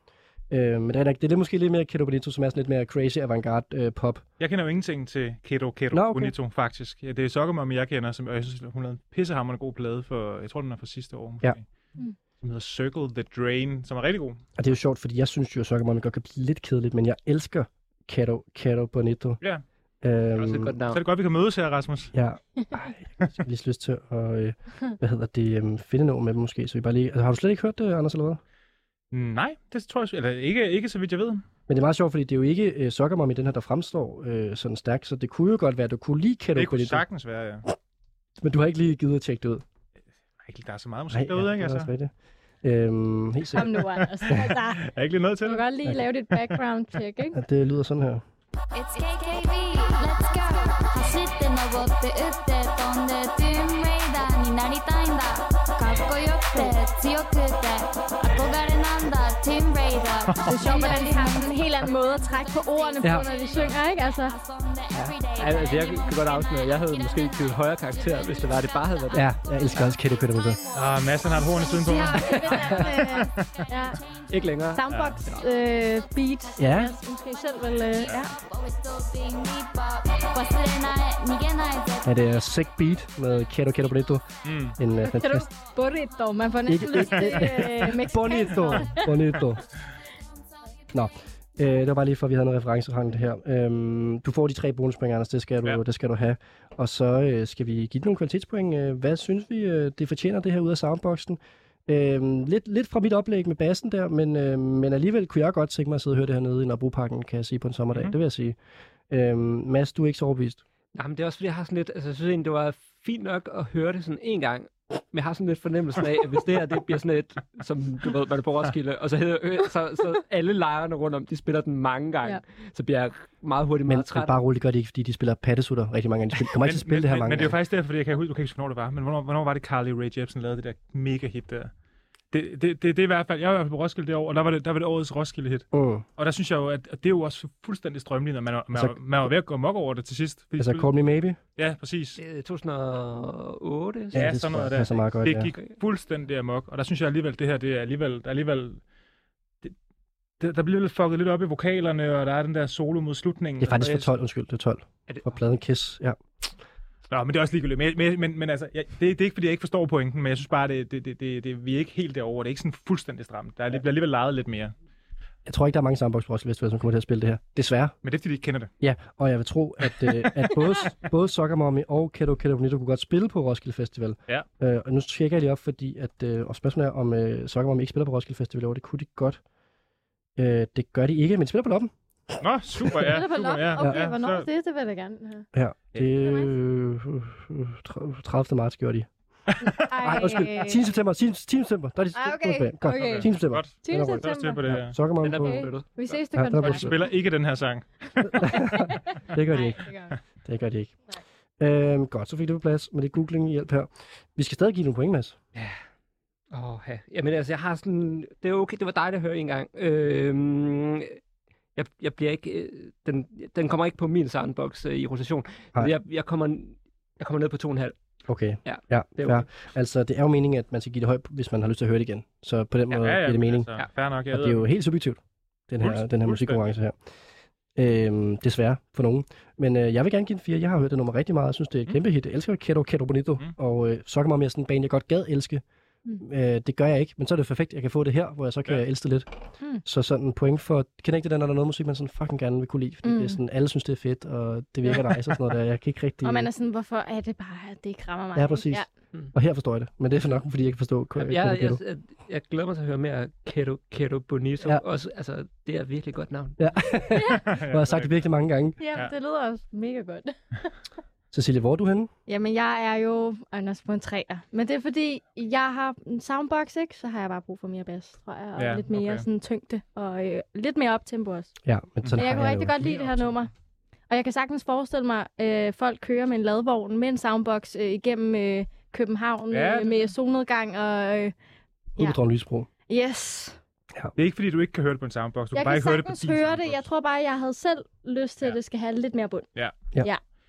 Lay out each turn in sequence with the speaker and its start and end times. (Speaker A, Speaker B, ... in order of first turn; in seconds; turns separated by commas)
Speaker A: 0.5-4.3, Speaker B: 4.4-11.7, Speaker A: 5.9-6.3, Speaker B: 12.4-14.4, Speaker A: 14.6-19.4, Speaker A: 20.0-20.8, Speaker C: 20.4-21.0, Speaker B: 20.9-22.1, Speaker A: 22.1-28.4, Speaker B: 29.1-31.4, Speaker A: 31.7-37.0, Speaker B: 36.5-37.6, Speaker A: 38.4-39.6, Speaker B: 40.4-41.9, Speaker A: 41.1-43.8, Speaker D: 43.5-44.8, Speaker B: 43.9-45.7, Speaker D: 45.4-47.4, Speaker A: 47.3-48.2, Speaker E: 48.7-74.7, Speaker D: 60.5-64.4, Speaker C: 64.9-70.0, Speaker A: 69.1-70.6, Speaker B: 70.7-73.7, Speaker D: 71.8-74.0, Speaker C: 72.7-73.0, Speaker C: 74.3-75.4, Speaker D: 74.7-78.3, Speaker B: 74.8-75.2, Speaker E: 75.3-84.0, Speaker A: 76.6-76.9, Speaker A: 82.0-85.5, Speaker B: 84.5-84.8, Speaker D: 85.0-89.2, Speaker E: 85.5-86.7, Speaker A: 86.7-89.6, Speaker B: 86.8-87.9, Speaker E: 87.3-91.1, Speaker A: 90.9-108.6, Speaker A: 109.1-110.6, Speaker C: 110.9-124.4, Speaker A: 123.9-127.6, Speaker B: 126.6-131.7, Speaker B: 132.3-140.9, Speaker A: 135.7-136.1, Speaker A: 138.7-139.3, Speaker A: 140.6-141.4, Speaker B: 141.6-142.2, Speaker C: 142.2-144.8, Speaker A: 144.1-145.5, Speaker B: 144.1-148.8, Speaker B: 150.4-153.9, Speaker A: 153.6-156.2, Speaker C: 153.8-154.1, Speaker C: 155.1-155.4, Speaker B: 157.1-164.7, Speaker A: 165.5-168.0, Speaker B: 168.0-168.7, Speaker A: 168.8-179.4, Speaker A: 180.4-183.2, Speaker B: 182.4-184.5, Speaker D: 183.1-185.5, Speaker A: 183.8-184.0, Speaker A: 185.5-189.1, Speaker D: 186.1-186.5, Speaker B: 189.5-190.5, Speaker D: 189.8-190.8, Speaker A: 190.0-195.8, Speaker D: 192.2-194.6, Speaker B: 192.9-195.0, Speaker C: 195.2-196.8, Speaker D: 195.4-197.1, Speaker A: 196.3-197.0, Speaker B: 196.6-198.4, Speaker D: 198.3-200.2, Speaker A: 198.3-201.0, Speaker A: 201.6-205.4, Speaker C: 206.5-211.2, Speaker C: 211.8-218.0, Speaker A: 218.3-223.7, Speaker C: 218.7-219.5, Speaker B: 222.9-224.7, Speaker A: 224.3-227.0, Speaker B: 225.8-226.7, Speaker A: 227.8-235.6, Speaker A: 236.2-239.3, Speaker A: 239.8-246.5, Speaker D: 243.0-243.4, Speaker D: 246.2-248.9, Speaker A: 248.3-251.8, Speaker C: 251.2-256.7, Speaker A: 256.6-258.8, Speaker D: 257.2-257.4, Speaker B: 257.4-258.3, Speaker D: 258.8-260.4, Speaker A: 261.3-262.1, Speaker D: 262.3-271.5, Speaker B: 268.6-269.2, Speaker A: 271.6-272.9, Speaker B: 272.0-273.4, Speaker D: 272.2-273.5, Speaker D: 274.1-281.3, Speaker B: 279.5-280.1, Speaker A: 282.0-282.7, Speaker D: 282.9-283.6, Speaker B: 284.2-286.8, Speaker D: 285.5-290.2, Speaker B: 289.6-289.9